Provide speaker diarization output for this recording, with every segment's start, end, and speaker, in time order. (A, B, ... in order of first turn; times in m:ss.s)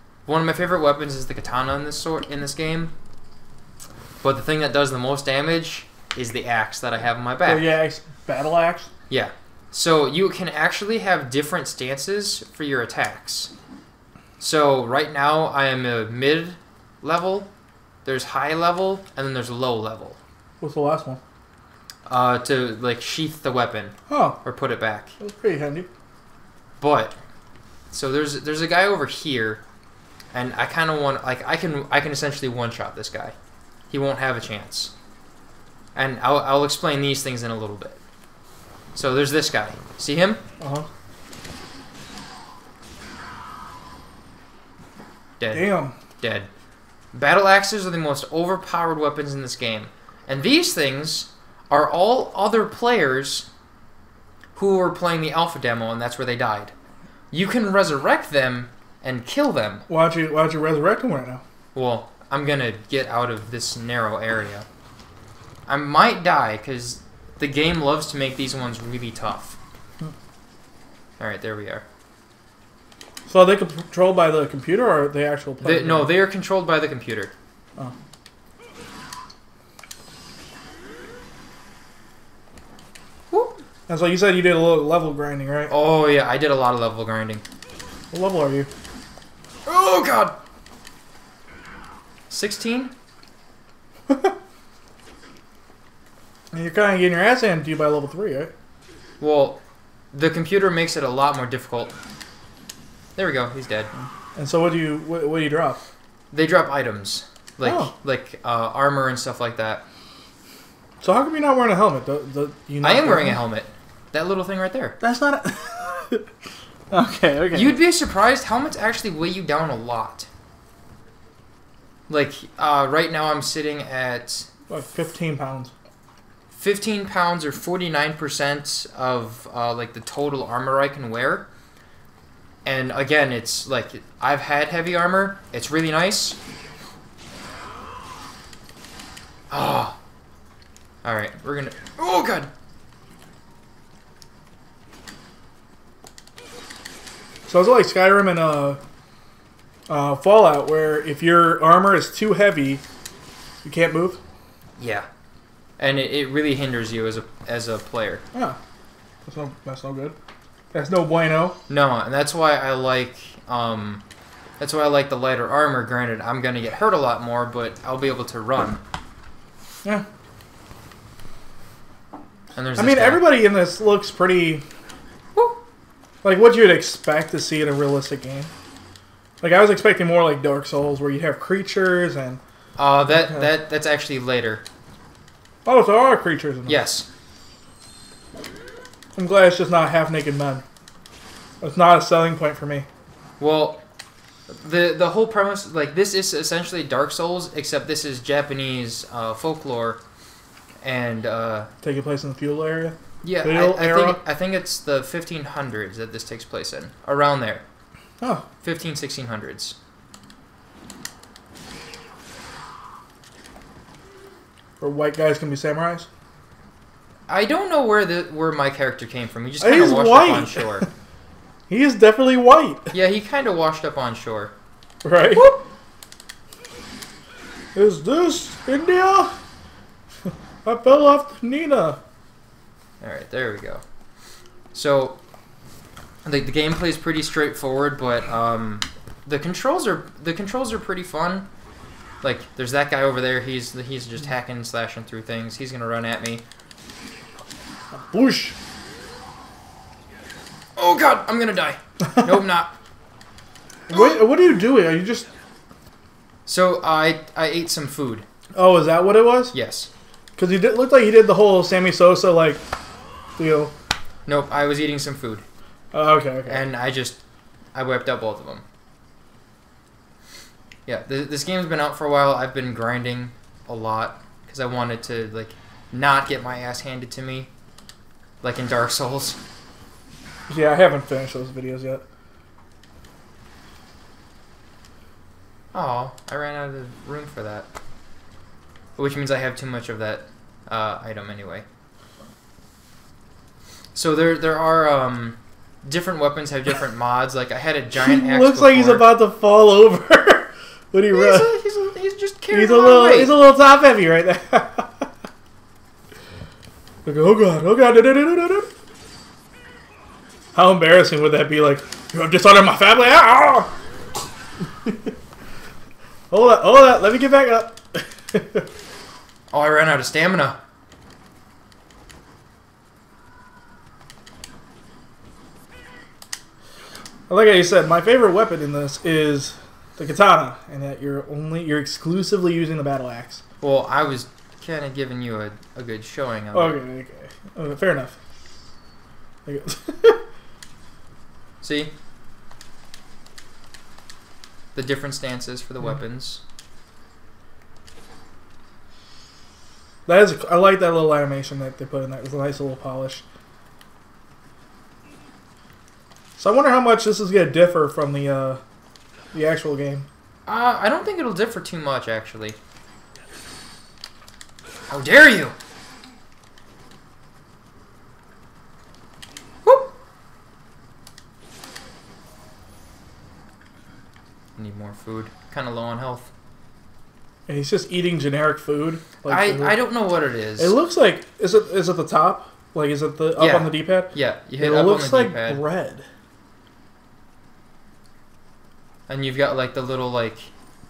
0:00.2-0:02.9 A
0:04.2-0:07.7 A
0:07.4-0:08.9 B
0:09.1-0:13.5 A
0:14.4-0:17.5 A
0:18.0-0:20.2 A
0:20.6-0:21.2 B
0:22.1-0:25.1 A
0:24.1-0:24.4 B
0:25.2-0:25.9 B
0:26.8-0:27.2 A
0:27.9-0:29.6 A
0:30.3-0:33.3 A
0:33.9-0:34.9 A
0:35.9-0:38.0 A
0:38.9-0:40.4 A
0:40.6-0:40.9 B
0:45.4-0:46.5 A
0:45.5-0:46.0 B
0:47.1-0:53.5 A
0:54.6-0:56.7 A
0:57.3-0:59.8 A
0:59.9-1:01.4 B
1:01.7-1:04.7 A
1:05.7-1:09.6 A
1:11.2-1:11.8 A
1:13.3-1:16.2 B
1:15.6-1:17.3 A
1:23.3-1:23.6 A
1:23.9-1:25.7 B
1:25.7-1:27.4 A
1:28.1-1:28.7 B
1:29.7-1:30.4 A
1:32.3-1:32.9 A
1:36.5-1:38.5 B
1:39.2-1:39.6 A
1:40.1-1:41.9 A
1:43.2-1:43.9 A
1:44.0-1:45.8 B
1:46.3-1:49.8 A
1:47.6-1:47.9 B
1:51.0-1:53.4 B
1:52.8-1:55.0 A
1:55.0-1:56.2 B
1:56.9-1:57.8 B
1:57.5-2:00.3 A
2:02.1-2:04.5 A
2:04.7-2:05.7 B
2:06.5-2:11.5 A
2:12.6-2:16.4 A
2:19.5-2:20.0 A
2:21.0-2:22.5 A
2:27.5-2:28.8 B
2:29.9-2:32.8 B
2:33.6-2:34.2 B
2:34.8-2:35.1 A
2:35.8-2:38.2 A
2:39.2-2:40.1 B
2:40.7-2:41.6 B
2:41.7-2:44.0 A
2:44.6-2:48.8 A
2:52.6-2:53.2 A
2:52.8-2:54.6 B
2:56.2-2:58.5 B
2:59.4-3:02.4 B
3:02.8-3:04.6 A
3:05.6-3:06.8 B
3:06.7-3:07.1 A
3:09.2-3:10.6 B
3:11.6-3:12.9 B
3:13.4-3:13.8 A
3:14.5-3:20.0 A
3:20.8-3:21.7 A
3:21.8-3:24.2 B
3:23.2-3:27.6 A
3:28.2-3:28.4 B
3:28.6-3:29.8 A
3:34.8-3:36.1 B
3:37.3-3:40.9 A
3:39.6-3:40.9 B
3:41.7-3:42.9 B
3:42.9-3:44.5 A
3:45.0-3:45.4 B
3:45.3-3:45.6 A
3:47.8-3:49.3 B
3:50.6-3:52.0 B
3:53.0-3:53.8 A
3:54.7-3:55.2 A
3:56.2-4:01.5 A
4:02.2-4:06.4 A
4:07.9-4:08.6 B
4:10.8-4:12.7 A
4:13.9-4:15.3 B
4:16.4-4:18.2 A
4:18.6-4:19.5 B
4:19.5-4:19.9 A
4:20.4-4:22.6 B
4:23.4-4:23.7 B
4:24.2-4:25.4 A
4:25.9-4:26.6 B
4:26.5-4:27.2 A
4:27.7-4:28.6 A
4:30.9-4:37.5 A
4:38.4-4:39.4 A
4:40.5-4:42.0 B
4:45.7-4:47.7 A
4:49.0-4:51.6 A
4:53.9-4:59.1 A
4:57.9-5:01.6 B
5:01.1-5:03.4 A
5:02.5-5:05.1 B
5:07.0-5:08.7 B
5:10.6-5:13.7 B
5:16.3-5:18.6 B
5:19.5-5:20.6 A
5:27.3-5:33.4 B
5:33.6-5:36.8 A
5:36.5-5:38.1 B
5:39.4-5:40.2 B
5:41.6-5:41.9 A
5:44.8-5:46.4 A
5:50.1-5:53.2 B
5:56.4-5:58.6 B
5:59.3-6:00.1 B
6:00.4-6:02.6 A
6:04.9-6:05.6 A
6:14.6-6:16.3 A
6:17.5-6:19.8 B
6:19.3-6:20.8 A
6:20.6-6:26.0 B
6:23.4-6:25.6 A
6:29.1-6:30.5 A